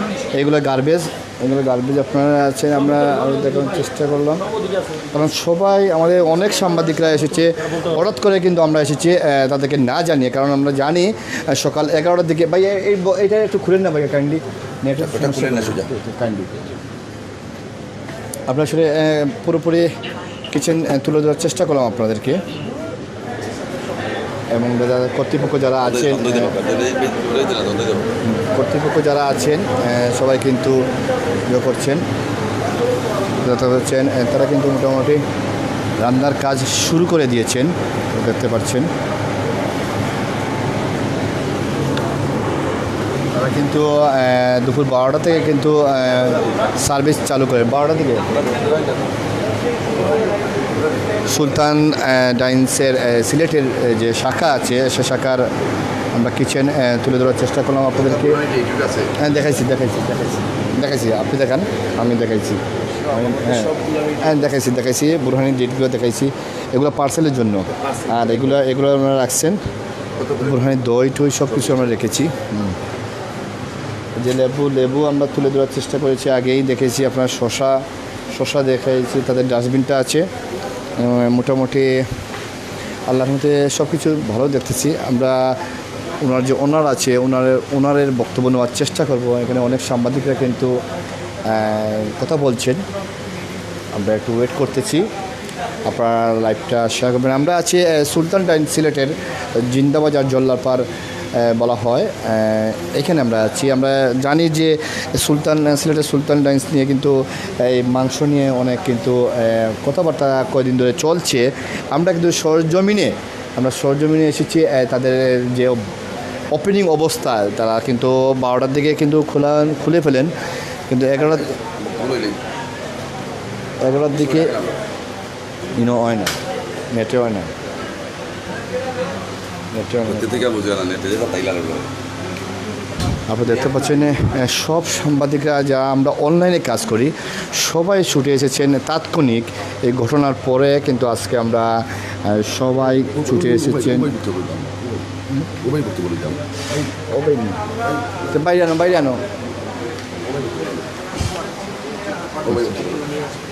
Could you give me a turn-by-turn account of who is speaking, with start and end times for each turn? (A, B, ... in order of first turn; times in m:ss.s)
0:00.3-0:04.4 A
0:05.1-0:16.5 A
0:15.0-0:15.9 B
0:18.5-0:19.9 A
0:20.5-0:22.4 A
0:24.5-0:26.6 A
0:25.8-0:28.1 B
0:28.2-0:30.8 A
0:31.5-0:32.0 A
0:33.4-0:35.2 A
0:36.0-0:38.9 A
0:43.3-0:48.5 A
0:51.3-0:55.5 A
0:56.2-0:58.4 A
0:58.3-0:59.1 B
0:59.2-1:09.6 A
1:10.4-1:12.8 A
1:14.2-1:17.8 A
1:18.3-1:20.3 A
1:21.0-1:22.0 A
1:23.1-1:25.6 A
1:26.2-1:30.8 A
1:31.5-1:32.8 A
1:33.9-1:35.1 A
1:35.9-1:55.8 A
1:56.5-2:00.3 A
2:00.9-2:01.5 A
2:01.8-2:02.4 B
2:03.8-2:04.6 A
2:04.3-2:04.6 B
2:05.8-2:06.4 A
2:06.9-2:07.5 A
2:09.7-2:10.5 A
2:10.1-2:11.9 B
2:13.3-2:24.1 A
2:23.2-2:25.0 B
2:25.6-2:26.4 B
2:27.1-2:27.6 A
2:28.3-2:29.2 A
2:30.3-2:30.8 B
2:32.4-2:33.1 B